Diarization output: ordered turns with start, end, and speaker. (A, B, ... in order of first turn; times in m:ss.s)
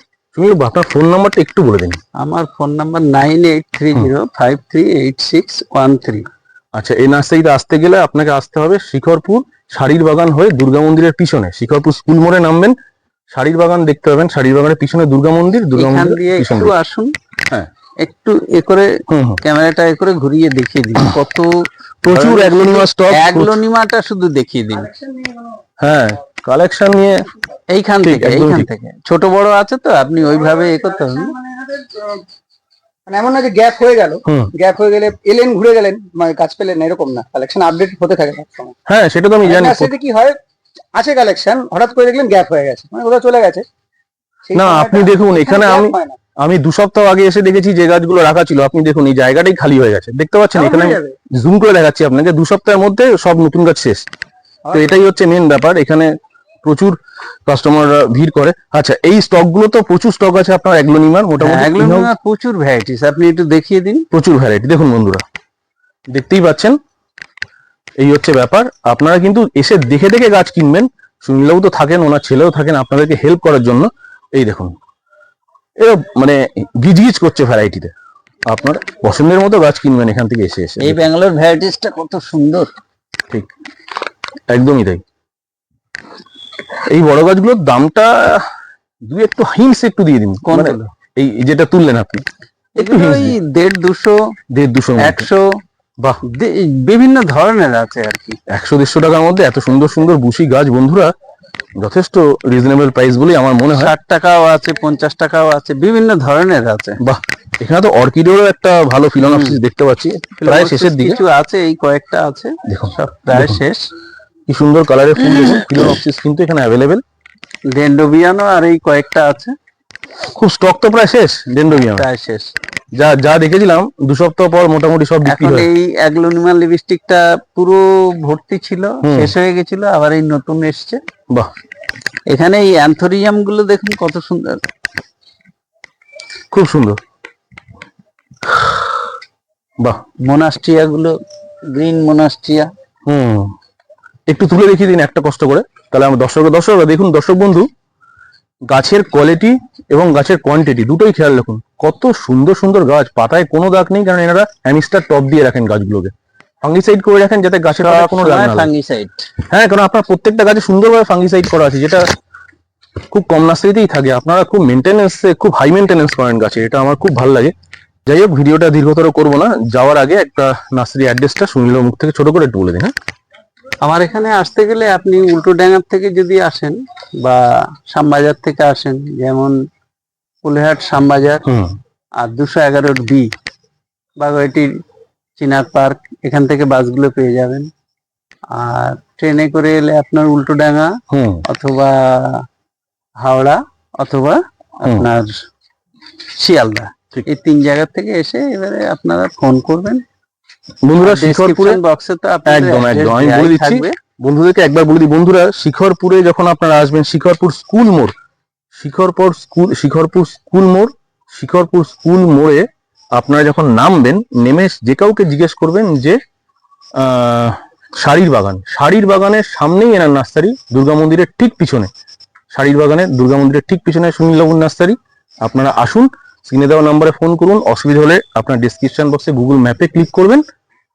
0:00.3-0:02.0 A
0:02.2-0:06.2 B
0:06.7-0:12.7 A
0:13.3-0:16.7 A
0:15.8-0:17.1 B
0:18.0-0:24.9 B
0:19.1-0:19.4 A
0:22.0-0:23.6 A
0:25.0-0:25.3 C
0:25.8-0:27.2 A
0:27.7-0:31.3 B
0:28.0-0:28.7 A
0:31.4-0:32.2 C
0:33.1-0:38.7 C
0:34.2-0:34.5 A
0:38.9-0:39.9 A
0:39.4-0:40.4 C
0:40.9-0:43.6 C
0:44.4-0:46.2 C
0:44.5-0:54.0 A
0:50.5-0:51.1 C
0:54.7-0:56.1 A
0:56.6-1:02.1 A
1:01.4-1:04.0 B
1:04.1-1:05.2 A
1:06.1-1:06.8 A
1:08.0-1:14.7 A
1:15.8-1:17.9 A
1:18.5-1:21.0 A
1:20.8-1:22.7 B
1:24.5-1:25.0 A
1:26.8-1:28.4 A
1:29.0-1:32.2 A
1:30.4-1:30.9 B
1:32.8-1:34.2 B
1:32.8-1:33.4 A
1:34.5-1:35.2 A
1:35.0-1:35.5 B
1:36.2-1:38.4 B
1:38.5-1:41.1 A
1:41.8-1:43.9 A
1:43.7-1:47.0 B
1:47.0-1:51.2 A
1:49.2-1:49.6 B
1:50.4-1:53.9 B
1:52.6-1:53.6 A
1:54.5-1:57.0 A
1:57.7-1:59.5 B
2:00.4-2:02.0 A
2:01.7-2:02.5 B
2:02.9-2:05.7 A
2:05.2-2:11.0 B
2:09.0-2:09.3 A
2:12.3-2:14.6 B
2:16.5-2:17.0 A
2:20.2-2:21.2 B
2:21.7-2:22.7 B
2:23.1-2:23.5 A
2:24.3-2:27.7 A
2:28.7-2:36.1 A
2:36.6-2:38.7 A
2:37.7-2:39.3 B
2:39.5-2:42.0 A
2:43.1-2:47.5 A
2:48.0-2:52.9 A
2:53.8-2:59.6 B
3:00.4-3:01.4 B
3:01.4-3:01.7 A
3:02.2-3:03.3 B
3:04.2-3:04.7 B
3:05.4-3:07.7 B
3:08.5-3:10.9 B
3:11.1-3:11.4 A
3:11.5-3:12.4 B
3:13.2-3:15.3 B
3:14.8-3:15.1 A
3:16.3-3:20.0 B
3:20.8-3:21.8 A
3:21.0-3:23.9 B
3:22.4-3:28.1 A
3:28.7-3:36.2 A
3:37.0-3:41.9 A
3:42.5-3:50.4 A